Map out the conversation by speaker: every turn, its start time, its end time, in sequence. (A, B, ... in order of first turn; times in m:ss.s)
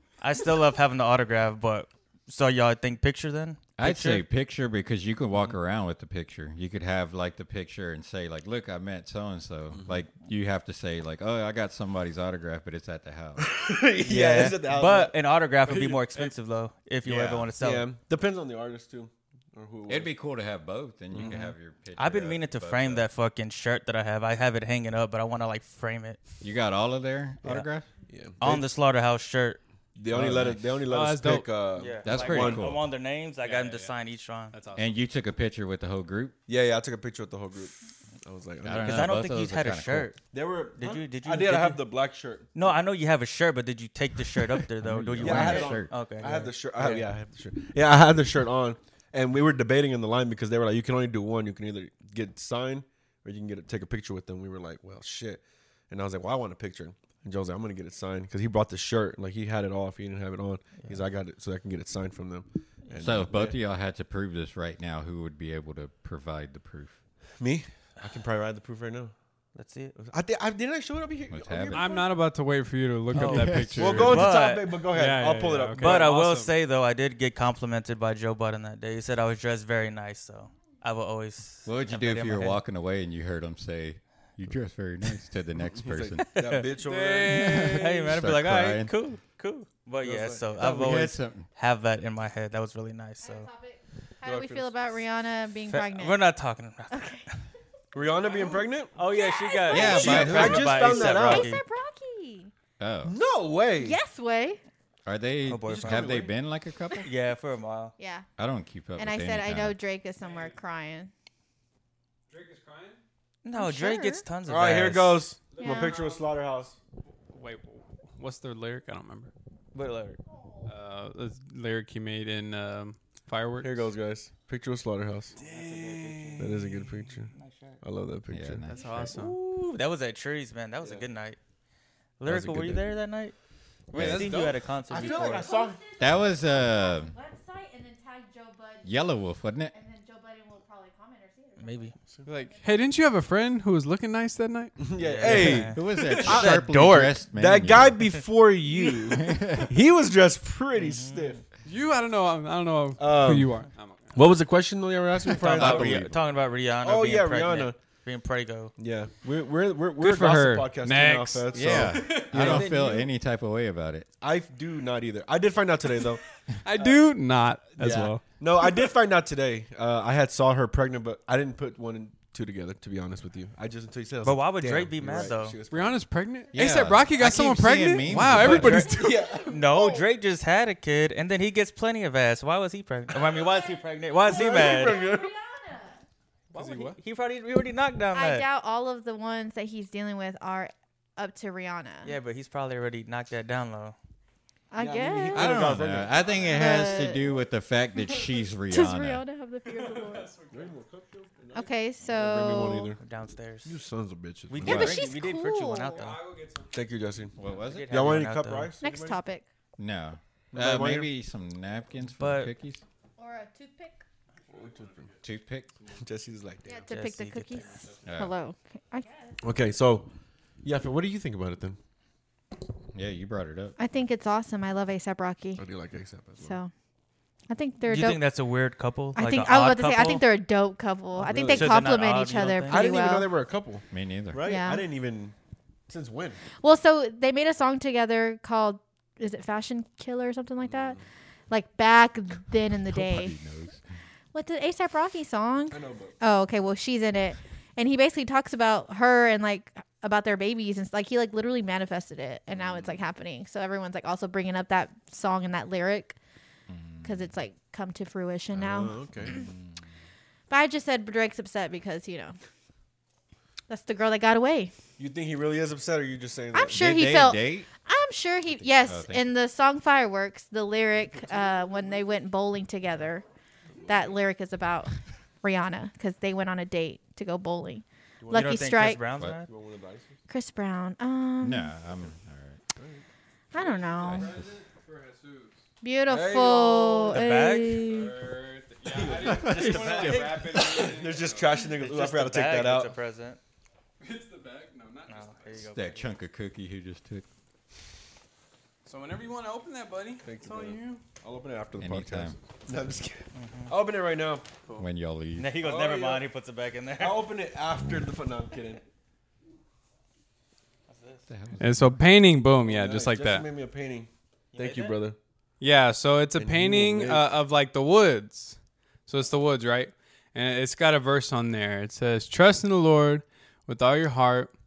0:00.2-0:04.2 A
0:03.8-0:13.5 B
0:09.7-0:10.0 C
0:13.4-0:15.2 C
0:14.0-0:17.9 A
0:15.7-0:16.3 D
0:17.1-0:17.5 B
0:17.6-0:20.1 C
0:19.9-0:23.1 B
0:21.1-0:21.4 C
0:21.2-0:26.2 A
0:26.4-0:27.9 B
0:28.1-0:28.7 C
0:28.4-0:29.6 A
0:30.0-0:32.8 C
0:30.1-0:30.7 B
0:30.9-0:31.5 D
0:31.8-0:34.6 A
0:32.0-0:32.8 B
0:33.4-0:33.9 D
0:34.5-0:35.0 D
0:34.8-0:36.4 B
0:36.5-0:39.1 C
0:38.6-0:40.1 B
0:38.8-0:40.2 A
0:40.3-0:42.5 C
0:40.8-0:41.8 A
0:42.5-0:47.1 A
0:44.8-0:45.9 B
0:45.2-1:03.6 C
1:03.0-1:07.0 B
1:07.4-1:09.1 C
1:09.6-1:10.1 A
1:10.1-1:12.0 C
1:11.3-1:11.9 B
1:11.7-1:14.3 D
1:13.2-1:14.3 B
1:13.2-1:14.8 A
1:13.8-1:16.1 C
1:14.9-1:16.5 D
1:15.8-1:22.6 A
1:21.6-1:26.3 B
1:25.6-1:27.7 C
1:26.3-1:26.7 A
1:26.8-1:28.0 D
1:27.3-1:28.9 B
1:27.6-1:33.5 A
1:30.0-1:30.6 C
1:30.6-1:31.5 B
1:33.2-1:36.2 E
1:34.3-1:34.6 C
1:34.3-1:34.6 D
1:35.7-1:37.4 A
1:36.9-1:37.3 E
1:37.9-1:38.9 C
1:39.0-1:41.6 A
1:39.0-1:42.5 E
1:39.7-1:40.9 B
1:39.8-1:41.5 C
1:42.8-1:43.2 B
1:43.0-1:44.0 C
1:43.8-1:44.6 E
1:45.1-1:47.1 B
1:45.5-1:46.2 A
1:45.7-1:46.3 C
1:47.0-1:48.0 A
1:48.0-1:48.3 E
1:48.4-1:49.8 B
1:49.0-1:51.1 E
1:50.2-1:50.6 D
1:52.3-1:53.0 D
1:53.4-1:55.3 A
1:53.6-1:54.2 E
1:54.5-1:56.8 C
1:55.5-1:56.3 D
1:55.6-1:56.0 E
1:57.3-1:59.3 D
1:59.7-2:00.2 A
2:00.3-2:00.7 E
2:00.7-2:03.9 D
2:03.6-2:05.4 C
2:05.4-2:06.6 D
2:05.4-2:06.7 A
2:06.4-2:08.6 C
2:07.3-2:07.8 A
2:08.3-2:09.1 B
2:08.7-2:09.4 D
2:08.7-2:09.1 E
2:09.1-2:11.4 A
2:10.8-2:11.1 C
2:12.2-2:13.4 A
2:12.3-2:12.8 B
2:12.3-2:12.7 C
2:13.9-2:15.6 A
2:13.9-2:14.6 D
2:14.0-2:14.4 B
2:14.9-2:15.8 C
2:14.9-2:18.9 E
2:16.0-2:17.1 B
2:18.8-2:19.7 B
2:19.7-2:23.0 E
2:21.6-2:21.9 A
2:22.3-2:24.8 D
2:24.8-2:26.6 C
2:25.0-2:27.2 A
2:25.2-2:28.1 B
2:27.3-2:31.4 C
2:29.1-2:29.7 B
2:30.8-2:31.4 A
2:31.6-2:34.3 D
2:33.0-2:33.6 C
2:34.2-2:36.1 C
2:35.3-2:38.7 A
2:35.5-2:36.1 B
2:36.8-2:37.8 C
2:38.8-2:43.1 C
2:40.0-2:42.7 D
2:41.5-2:44.1 B
2:42.4-2:43.0 A
2:44.2-2:46.2 C
2:46.6-2:48.2 D
2:47.8-2:56.0 C
2:54.2-2:55.6 A
2:55.7-2:59.3 D
2:56.5-2:58.9 B
2:58.3-2:59.6 C
2:58.4-2:58.8 A
2:58.7-3:00.1 E
2:59.5-3:05.0 A
3:03.3-3:06.0 E
3:04.3-3:05.3 C
3:06.5-3:08.5 A
3:06.5-3:07.0 D
3:08.1-3:12.1 E
3:12.0-3:14.0 A
3:14.7-3:17.3 E
3:14.8-3:16.9 C
3:15.3-3:19.2 B
3:18.7-3:20.4 E
3:19.7-3:20.8 D
3:20.5-3:23.0 C
3:21.5-3:23.0 E
3:23.0-3:23.8 A
3:23.6-3:24.9 C
3:24.5-3:26.2 A
3:24.6-3:25.0 B
3:24.6-3:26.1 E
3:26.0-3:26.8 D
3:26.7-3:27.4 C
3:27.4-3:28.3 B
3:27.6-3:28.7 A
3:27.9-3:29.2 C
3:28.8-3:29.5 E
3:29.8-3:32.8 B
3:30.5-3:31.1 C
3:32.2-3:32.5 A
3:33.2-3:34.0 E
3:34.4-3:35.2 D
3:34.5-3:35.1 C
3:35.2-3:35.7 B
3:35.8-3:36.0 D
3:36.0-3:36.9 C
3:36.7-3:39.4 E
3:36.9-3:37.7 A
3:37.5-3:38.2 D
3:38.1-3:38.4 B
3:39.4-3:40.1 C
3:40.6-3:41.8 C
3:42.9-3:43.8 B
3:43.8-3:45.6 E
3:45.6-3:46.6 C
3:46.4-3:46.7 E
3:47.5-3:48.2 E
3:47.9-3:50.2 A
3:49.2-3:53.3 E
3:51.2-3:51.9 C
3:51.3-3:53.0 A
3:52.7-3:55.3 C
3:53.9-3:54.4 B
3:54.4-3:54.8 E
3:55.9-3:56.4 C
3:56.6-4:01.0 E
4:00.7-4:01.0 C
4:01.5-4:03.4 E
4:02.9-4:03.8 B
4:04.3-4:16.2 E
4:05.7-4:06.2 C
4:16.7-4:17.2 B
4:17.0-4:19.4 E
4:18.5-4:19.4 C
4:19.2-4:19.7 B
4:20.5-4:22.4 E
4:23.7-4:24.7 E
4:25.0-4:27.0 C
4:26.5-4:33.2 E
4:26.7-4:27.7 B
4:28.5-4:29.3 B
4:33.8-4:34.1 C
4:33.9-4:39.0 E
4:38.2-4:39.5 A
4:39.5-4:40.2 C
4:40.3-4:41.7 E
4:41.4-4:42.6 B
4:42.8-4:43.0 C
4:43.5-4:44.3 E
4:43.6-4:45.6 D
4:44.0-4:44.3 B
4:45.8-4:48.2 E
4:46.1-4:47.2 C
4:47.1-4:47.9 A
4:47.8-4:51.6 D
4:48.9-4:53.0 C
4:49.2-4:50.4 B
4:49.4-4:50.6 A
4:51.7-4:53.4 A
4:54.0-4:55.7 D
4:55.1-4:56.1 A
4:55.7-4:57.3 B
4:58.8-5:01.0 D
5:00.2-5:04.6 C
5:01.8-5:02.4 B
5:03.3-5:03.7 A
5:04.8-5:05.6 B
5:05.4-5:07.2 A
5:05.6-5:06.3 C
5:07.0-5:08.8 C
5:10.9-5:11.2 A
5:11.3-5:12.0 B
5:11.6-5:13.5 D
5:12.6-5:15.2 C
5:14.5-5:15.0 A
5:15.6-5:24.5 D
5:16.4-5:17.3 C